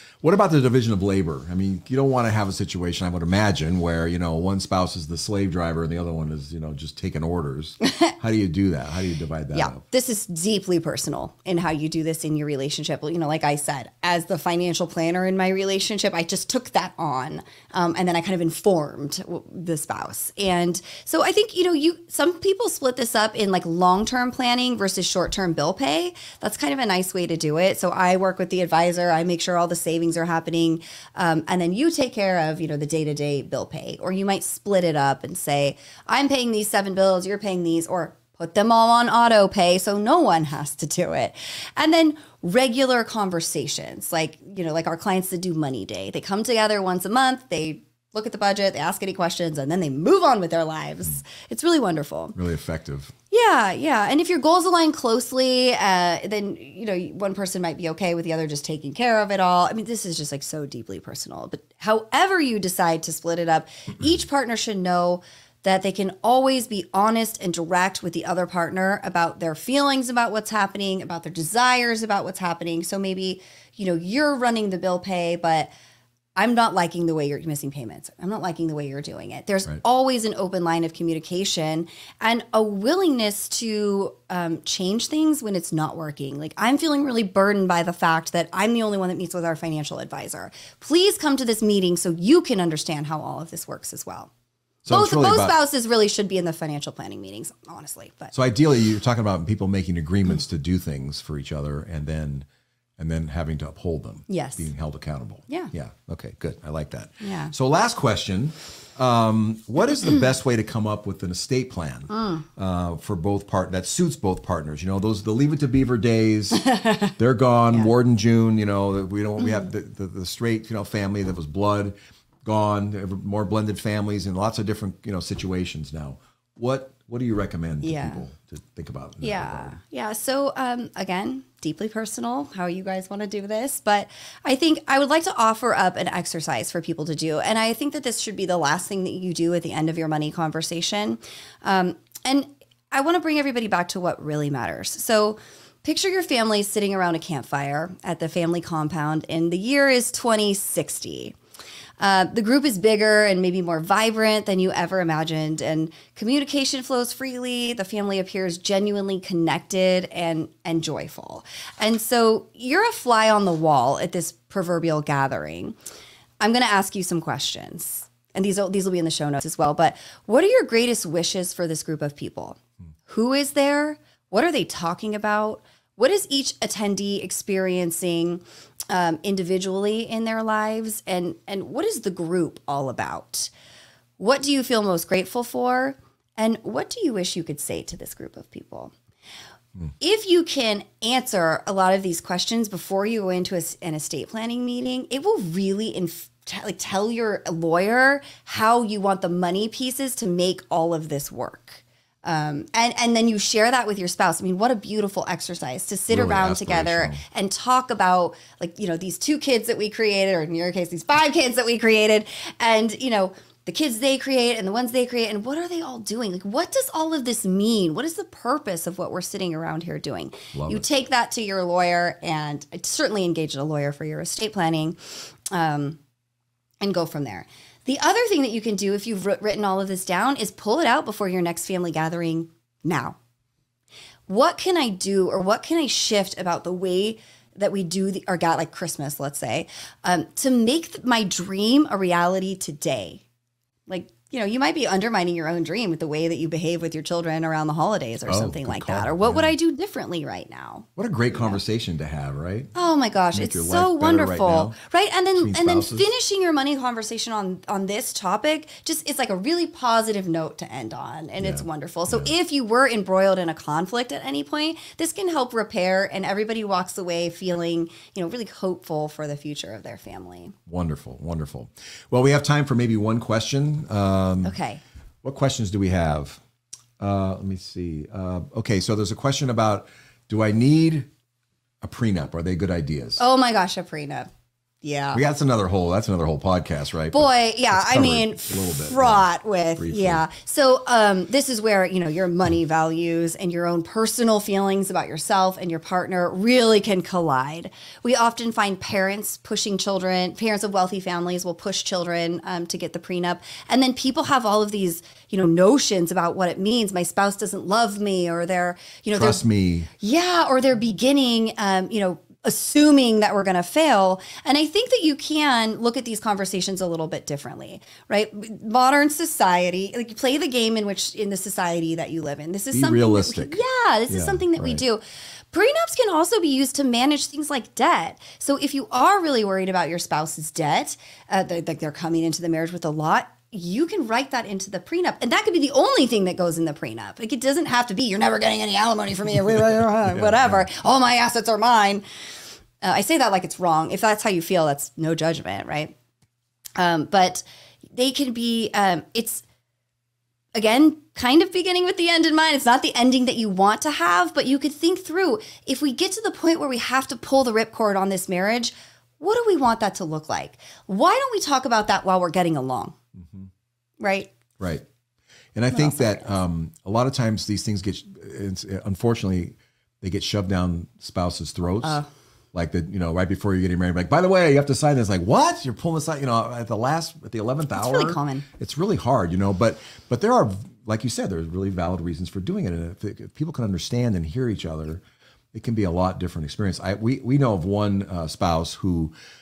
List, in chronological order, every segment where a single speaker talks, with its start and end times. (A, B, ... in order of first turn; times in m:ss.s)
0:00.2-0:09.8 A
0:09.5-0:52.4 B
0:52.3-0:53.1 A
0:53.3-1:15.7 B
1:16.4-1:34.3 B
1:34.8-1:35.6 A
1:34.9-1:38.3 B
1:38.3-1:42.4 A
1:43.0-2:09.8 A
1:44.3-1:44.7 B
1:47.2-1:47.5 B
1:52.1-1:52.4 B
1:56.6-1:57.1 B
2:07.8-2:08.2 B
2:09.2-2:31.4 B
2:32.0-2:45.7 B
2:46.4-3:03.5 B
3:04.2-3:08.9 B
3:10.0-3:45.0 B
3:26.1-3:27.2 A
3:40.5-3:40.8 A
3:45.5-3:46.0 B
3:46.8-3:53.2 B
3:54.3-4:03.2 B
4:03.9-4:11.6 B
4:08.3-4:09.5 A
4:11.0-4:12.7 A
4:12.7-4:30.5 B
4:13.3-4:14.8 A
4:15.3-4:16.1 A
4:21.4-4:22.3 A
4:30.7-4:34.6 A
4:34.4-4:34.8 B
4:35.2-4:36.4 A
4:37.0-4:41.1 A
4:41.8-4:43.2 A
4:43.2-4:44.3 B
4:44.8-4:45.2 B
4:45.1-4:50.2 A
4:47.1-5:09.4 B
5:09.1-5:09.9 A
5:10.0-5:42.0 B
5:22.7-5:24.8 A
5:39.5-5:40.7 A
5:42.8-5:45.9 B
5:46.8-5:47.4 B
5:48.0-5:49.4 B
5:50.5-6:03.0 B
6:03.2-6:03.5 A
6:04.0-6:04.3 B
6:04.6-6:04.8 A
6:05.5-6:12.0 A
6:05.7-6:06.3 B
6:11.8-6:12.1 B
6:12.5-6:25.0 A
6:17.7-6:18.4 B
6:25.5-6:29.1 A